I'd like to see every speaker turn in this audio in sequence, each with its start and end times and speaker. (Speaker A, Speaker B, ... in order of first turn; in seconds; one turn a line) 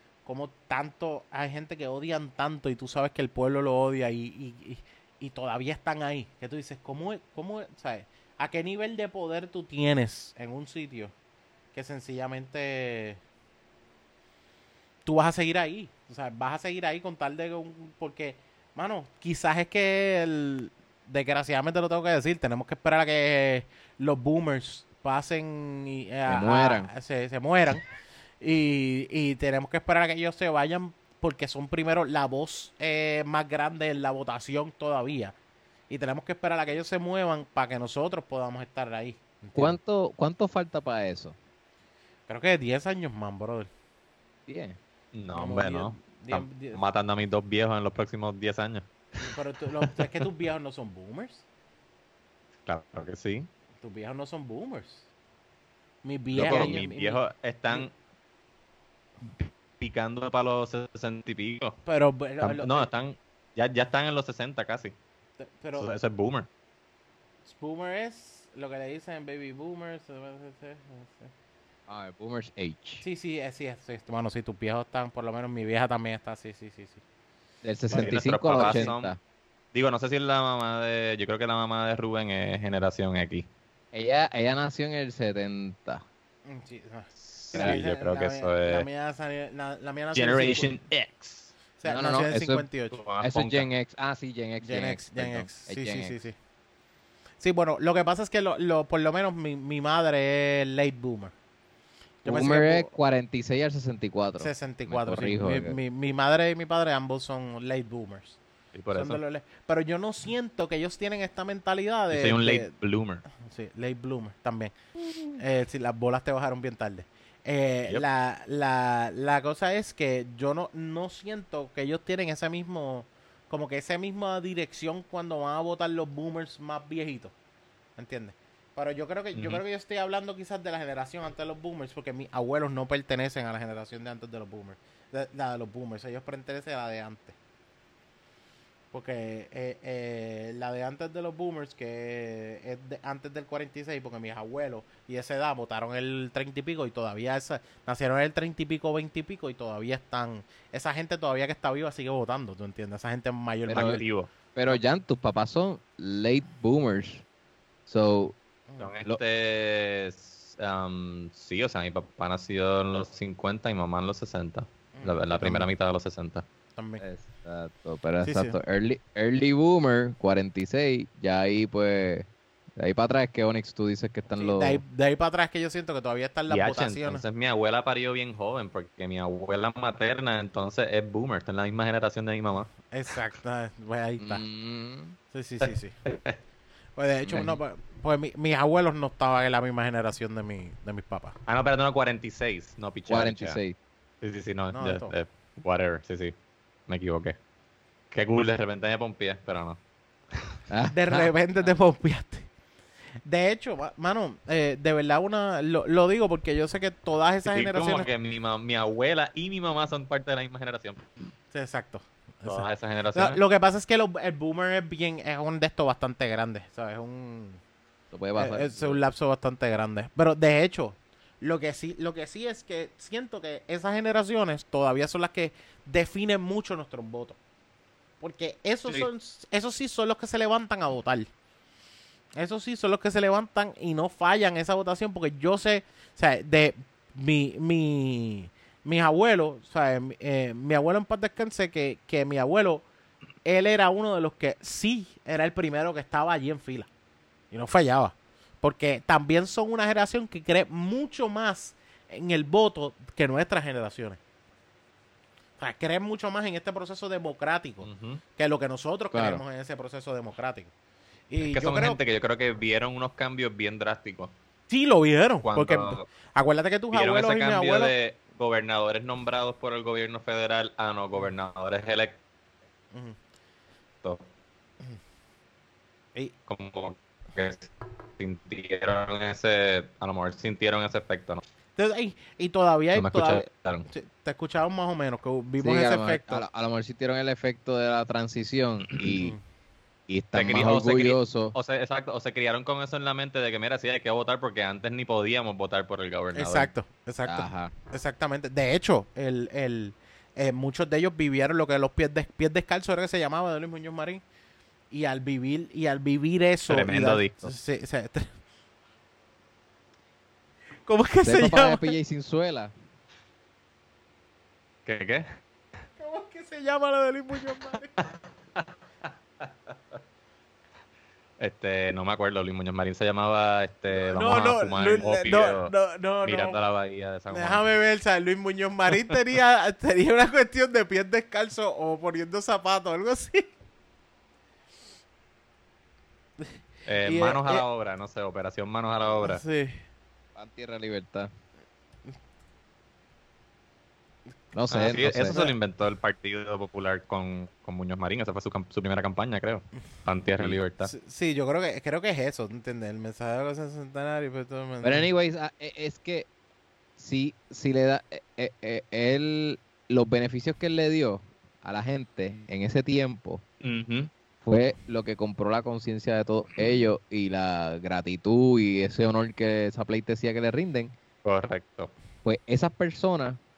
Speaker A: 0.3-11.1
Speaker A: 11.7-13.2
Speaker A: 15.1-27.8
Speaker B: 26.3-26.9
Speaker A: 28.4-35.4
Speaker A: 35.9-39.8
Speaker B: 39.5-41.4
Speaker A: 42.3-43.7
Speaker B: 44.5-44.8
Speaker C: 45.1-49.3
Speaker A: 45.3-46.8
Speaker A: 49.2-51.4
Speaker C: 52.7-53.5
Speaker A: 53.8-55.0
Speaker A: 56.0-57.2
Speaker C: 56.4-57.9
Speaker B: 56.4-56.9
Speaker C: 59.3-61.8
Speaker A: 61.9-62.9
Speaker C: 62.4-65.0
Speaker A: 65.4-65.9
Speaker C: 65.7-66.5
Speaker A: 67.5-71.3
Speaker B: 71.9-73.0
Speaker A: 73.0-77.0
Speaker B: 77.6-79.2
Speaker A: 77.9-78.9
Speaker C: 77.9-79.1
Speaker C: 79.7-83.5
Speaker B: 83.9-86.0
Speaker A: 86.5-90.7
Speaker C: 87.2-88.9
Speaker B: 87.5-87.8
Speaker C: 90.1-91.6
Speaker A: 91.8-93.0
Speaker B: 91.8-92.7
Speaker C: 92.9-93.7
Speaker B: 93.2-96.2
Speaker A: 94.6-96.4
Speaker A: 97.4-101.3
Speaker A: 102.2-102.9
Speaker B: 102.2-105.8
Speaker A: 104.4-108.4
Speaker C: 108.7-109.2
Speaker A: 108.9-112.7
Speaker C: 112.1-113.2
Speaker A: 113.4-114.8
Speaker A: 115.4-127.3
Speaker A: 128.0-137.4
Speaker C: 129.3-129.6
Speaker A: 138.9-154.0
Speaker B: 153.7-154.0
Speaker C: 153.7-154.3
Speaker B: 154.6-157.2
Speaker B: 157.9-158.4
Speaker C: 158.8-166.4
Speaker A: 164.9-165.7
Speaker A: 166.8-167.0
Speaker B: 167.0-174.8
Speaker A: 168.2-168.6
Speaker A: 174.3-177.2
Speaker C: 176.5-182.7
Speaker A: 182.9-184.4
Speaker B: 184.2-185.2
Speaker A: 185.3-185.9
Speaker C: 185.6-186.4
Speaker A: 187.0-191.4
Speaker B: 187.3-187.6
Speaker C: 191.5-193.6
Speaker B: 193.1-193.8
Speaker C: 194.2-196.3
Speaker A: 194.7-195.1
Speaker C: 196.9-197.4
Speaker C: 198.1-199.8
Speaker C: 200.3-200.6
Speaker B: 200.7-201.3
Speaker A: 200.9-202.5
Speaker A: 203.3-208.1
Speaker C: 207.5-211.1
Speaker A: 211.5-217.6
Speaker C: 212.4-213.4
Speaker B: 218.1-219.0
Speaker A: 218.4-227.4
Speaker A: 228.2-231.3
Speaker A: 232.4-242.8
Speaker A: 243.4-246.9
Speaker A: 247.5-254.2
Speaker A: 255.6-260.7
Speaker C: 257.8-258.2
Speaker B: 259.1-259.4
Speaker A: 261.3-262.0
Speaker C: 261.4-264.3
Speaker A: 264.7-267.9
Speaker C: 265.4-266.1
Speaker C: 266.9-272.2
Speaker A: 272.9-273.2
Speaker C: 276.5-281.4
Speaker A: 281.8-286.4
Speaker C: 282.9-283.9
Speaker B: 285.6-289.4
Speaker B: 290.1-291.6
Speaker C: 290.4-296.7
Speaker A: 296.4-304.2
Speaker B: 297.3-297.7
Speaker A: 304.9-308.3
Speaker C: 306.7-307.5
Speaker A: 310.9-311.9
Speaker B: 311.2-312.7
Speaker C: 314.9-315.3
Speaker A: 316.0-317.9
Speaker C: 318.0-318.7
Speaker C: 321.4-327.7
Speaker A: 323.9-326.6
Speaker A: 327.3-333.5
Speaker A: 336.4-337.6
Speaker C: 336.9-339.4
Speaker A: 339.2-339.8
Speaker B: 340.4-341.3
Speaker B: 344.5-345.4
Speaker C: 344.7-350.9
Speaker A: 345.3-345.6
Speaker A: 350.9-355.1
Speaker B: 354.8-356.3
Speaker B: 357.0-363.4
Speaker C: 363.6-364.1
Speaker B: 364.4-370.9
Speaker C: 371.2-371.9
Speaker B: 372.2-373.4